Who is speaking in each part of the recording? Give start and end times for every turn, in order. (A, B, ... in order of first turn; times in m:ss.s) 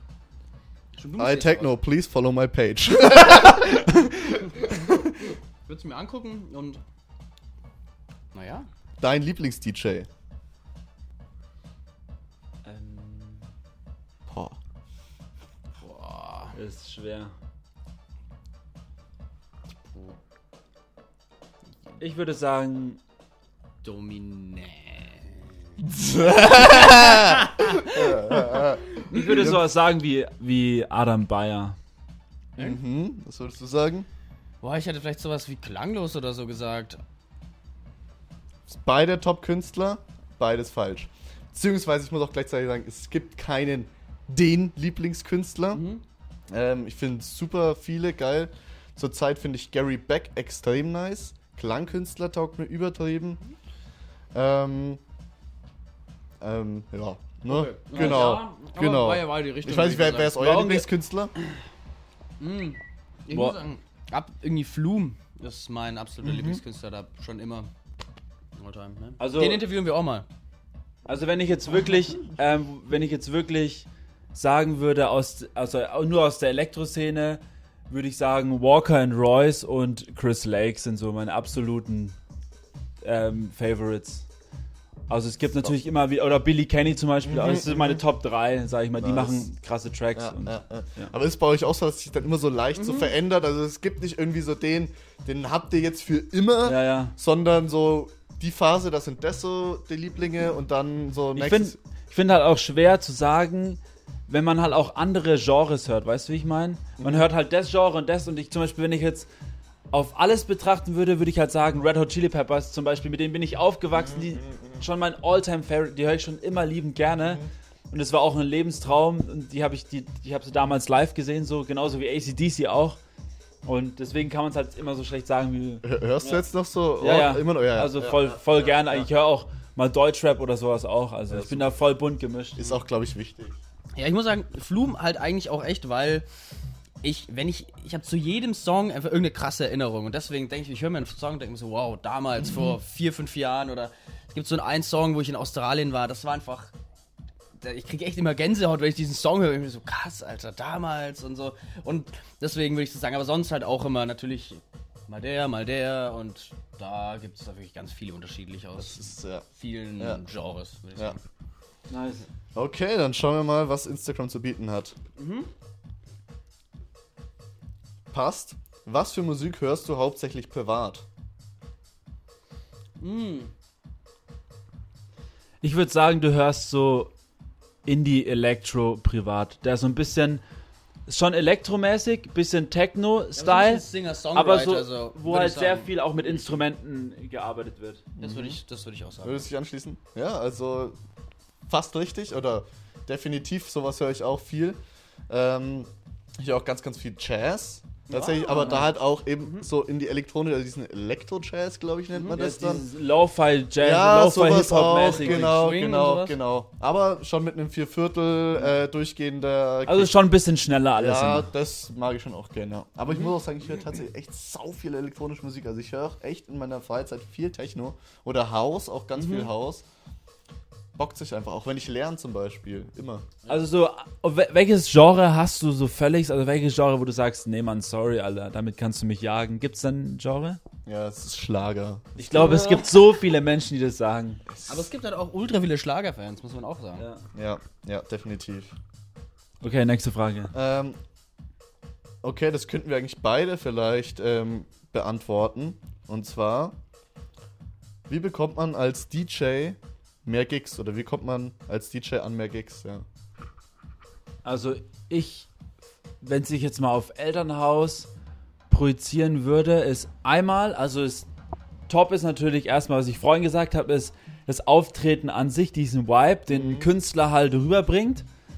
0:01.0-0:01.8 A
0:01.2-0:05.4 B
0:05.7-0:06.8 A
0:08.3-0:08.7 A
0:09.0-0:10.1 B
0:12.6-0:13.4 C
0:14.3-0:14.6 B
0:15.8-0:16.6 A
0:16.5-0:17.3 C
0:22.0-0:23.0 C
0:23.8-0:25.5 A
0:25.8-0:29.6 B
0:26.6-0:28.3 A
0:29.1-0:31.8 C
0:32.6-0:34.1 B
0:34.6-0:37.0 A
0:38.7-0:45.8 B
0:45.7-0:46.0 A
0:46.5-0:53.4 B
0:54.3-0:55.0 B
0:56.4-1:01.3 B
0:57.4-1:00.4 A
1:00.3-1:00.9 C
1:02.4-1:07.7 A
1:03.3-1:03.6 C
1:06.2-1:06.6 B
1:08.6-1:10.3 A
1:09.2-1:09.6 C
1:11.1-1:22.2 C
1:23.0-1:24.3 C
1:25.1-1:31.1 C
1:27.2-1:28.0 B
1:29.0-1:29.5 B
1:30.2-1:41.8 B
1:32.8-1:33.1 A
1:36.6-1:37.2 C
1:41.4-1:49.3 C
1:47.0-1:47.3 B
1:49.9-2:03.0 C
1:53.9-1:54.8 B
2:03.6-2:05.8 C
2:05.8-2:09.1 B
2:07.0-2:12.8 C
2:11.3-2:11.7 B
2:12.6-2:13.6 B
2:14.0-2:16.3 A
2:17.0-2:26.7 A
2:27.6-2:41.2 A
2:38.8-2:39.5 B
2:41.9-2:42.3 C
2:42.6-2:45.0 B
2:45.2-2:45.5 A
2:48.1-2:51.1 B
2:53.0-2:53.5 A
2:55.6-2:57.1 C
2:57.8-3:00.4 C
3:01.1-3:08.1 C
3:03.4-3:06.6 A
3:08.2-3:09.5 A
3:08.2-3:08.6 B
3:09.2-3:11.0 B
3:11.7-3:14.8 B
3:15.3-3:22.9 B
3:18.1-3:18.9 A
3:22.3-3:25.6 C
3:23.8-3:30.1 B
3:25.2-3:26.4 A
3:29.9-3:31.5 C
3:31.0-3:39.9 B
3:33.1-3:33.4 A
3:39.2-3:39.5 A
3:41.0-3:43.3 B
3:43.5-3:50.6 C
3:50.9-3:52.7 B
3:52.2-3:54.4 C
3:52.3-3:52.9 A
3:54.5-3:54.9 B
3:54.7-3:57.1 A
3:57.0-3:57.3 C
3:57.3-3:58.8 B
3:59.6-4:00.5 C
4:00.5-4:01.0 B
4:02.2-4:06.8 B
4:08.1-4:13.1 B
4:14.4-4:15.5 C
4:16.2-4:18.1 C
4:18.7-4:21.3 C
4:21.9-4:28.3 C
4:26.5-4:26.9 B